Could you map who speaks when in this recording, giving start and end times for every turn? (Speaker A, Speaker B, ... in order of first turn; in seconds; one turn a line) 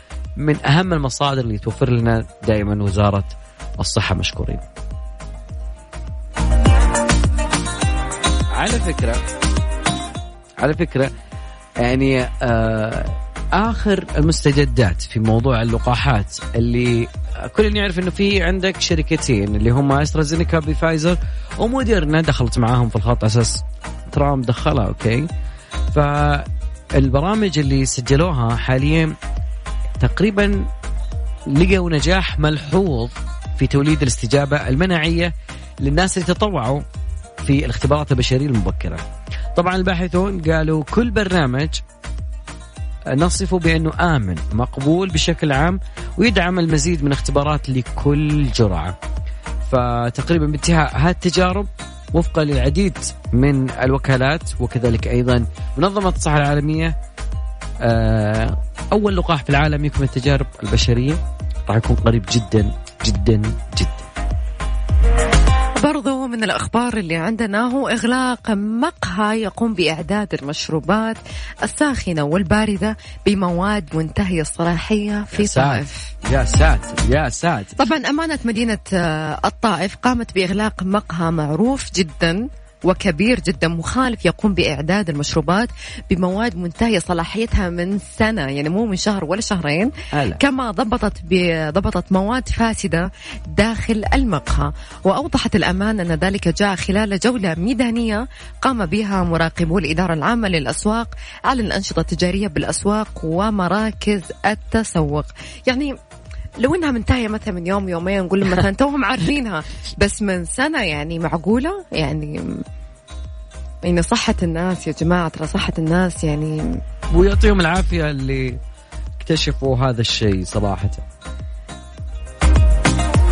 Speaker A: 0.4-4.6
Speaker A: 8.5-9.2
Speaker A: 10.6-11.1
Speaker A: 11.8-25.3
Speaker A: 25.9-29.1
Speaker A: 30.0-30.7
Speaker A: 31.5-36.8
Speaker A: 37.4-41.8
Speaker A: 43.1-49.0
Speaker A: 49.6-57.0
Speaker A: 57.8-64.1
Speaker B: 65.8-76.1
Speaker A: 75.3-77.8
Speaker B: 77.8-106.0
Speaker A: 90.1-90.4
Speaker B: 106.6-112.5
Speaker B: 113.8-116.6
Speaker A: 117.1-118.6
Speaker A: 119.2-121.0